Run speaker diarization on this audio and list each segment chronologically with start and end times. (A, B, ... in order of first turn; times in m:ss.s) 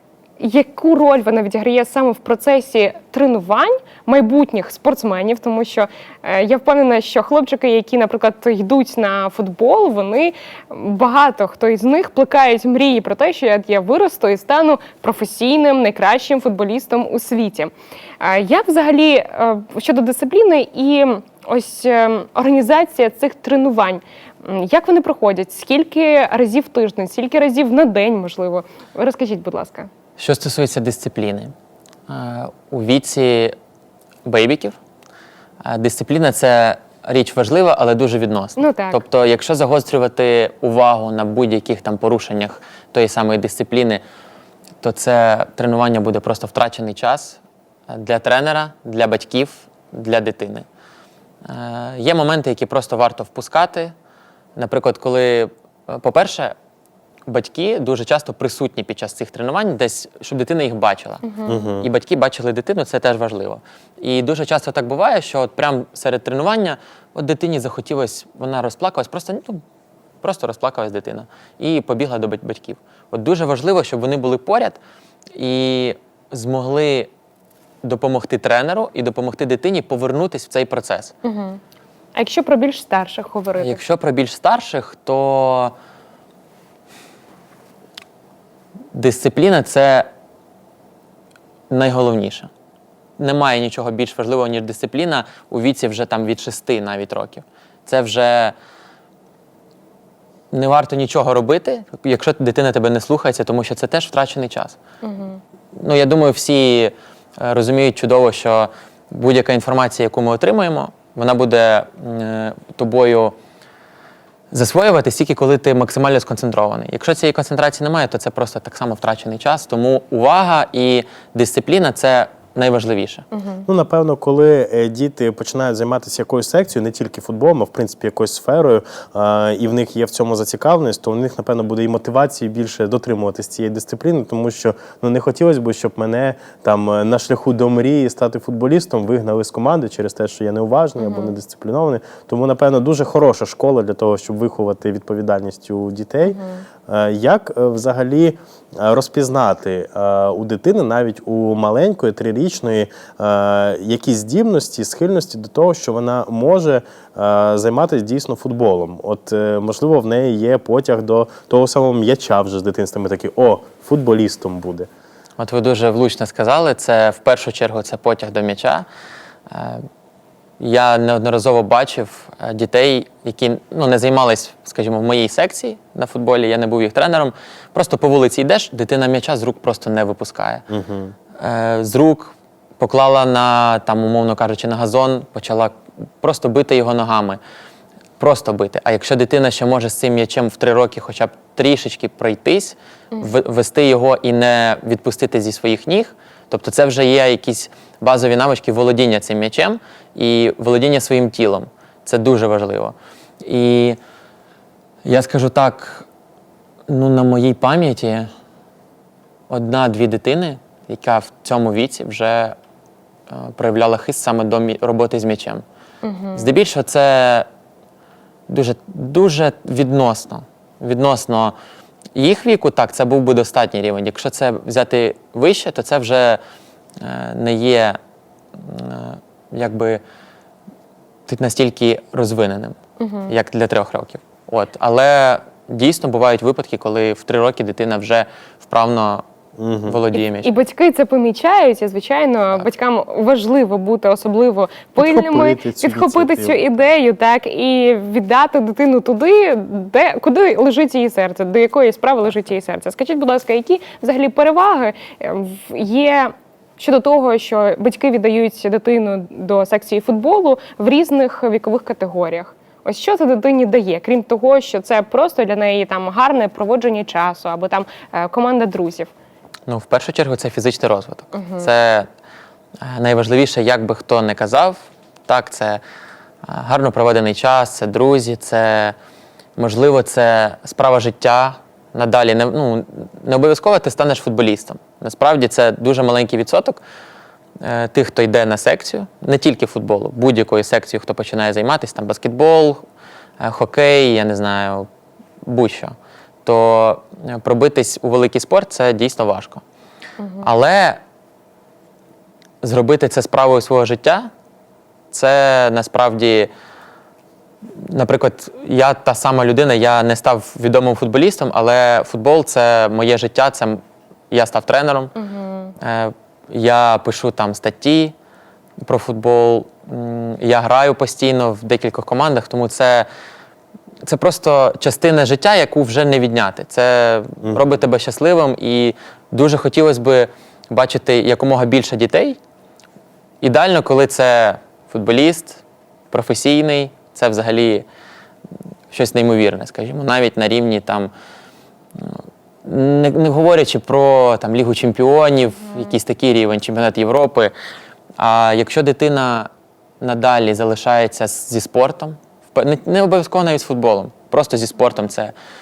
0:00.4-0:29.9 A
0:30.2-0:31.5 B
0:32.1-0:33.5 B
0:34.2-0:34.8 B
0:35.6-0:44.0 B
0:38.6-0:39.0 A
0:44.8-0:50.7 B
0:51.4-0:53.9 B
0:54.6-0:56.5 B
0:57.3-1:09.6 B
1:01.3-1:01.6 A
1:01.5-1:01.9 C
1:10.2-1:14.8 B
1:15.3-1:17.1 B
1:17.8-1:21.1 B
1:21.2-1:21.6 A
1:22.2-1:23.8 A
1:23.6-1:25.7 B
1:28.9-1:30.1 B
1:31.7-1:32.5 B
1:33.2-1:38.6 B
1:40.5-1:44.8 B
1:45.0-1:45.4 A
1:45.8-1:53.4 B
1:54.5-2:03.3 B
2:03.7-2:44.9 C
2:21.0-2:21.3 A
2:26.3-2:26.6 A
2:45.4-2:48.9 B
2:49.5-2:49.8 B
2:50.6-3:00.6 B
3:00.7-3:01.1 C
3:01.4-3:07.4 B
3:08.2-3:24.0 B
3:25.0-3:26.1 B
3:26.9-3:28.3 B
3:29.5-3:32.6 B
3:33.3-3:35.6 B
3:36.0-3:36.5 A
3:36.4-3:37.5 B
3:38.5-3:41.6 B
3:42.2-3:46.4 B
3:47.0-3:48.0 B
3:48.6-3:50.0 B
3:51.3-3:52.8 B
3:53.0-3:53.3 A
3:53.3-3:59.2 B
3:59.6-4:00.0 C
3:59.8-4:00.5 B
4:00.3-4:29.1 A
4:05.0-4:06.7 C
4:29.7-4:32.1 B
4:31.3-4:31.7 A
4:32.8-4:35.8 B
4:36.4-4:39.0 B
4:39.6-4:46.8 B
4:47.6-4:52.8 B
4:53.4-4:54.9 B
4:55.4-4:55.9 B
4:56.4-4:59.6 B
5:00.2-5:00.5 A
5:00.4-5:01.0 B
5:02.6-5:04.3 B
5:05.1-5:06.5 B
5:07.8-5:15.2 B
5:15.2-5:15.8 A
5:15.8-5:18.1 B
5:18.8-5:23.1 B
5:24.0-5:32.4 B
5:33.4-5:37.9 B
5:38.9-5:41.1 B
5:42.0-5:47.5 B
5:48.2-5:49.5 B
5:50.0-5:55.3 B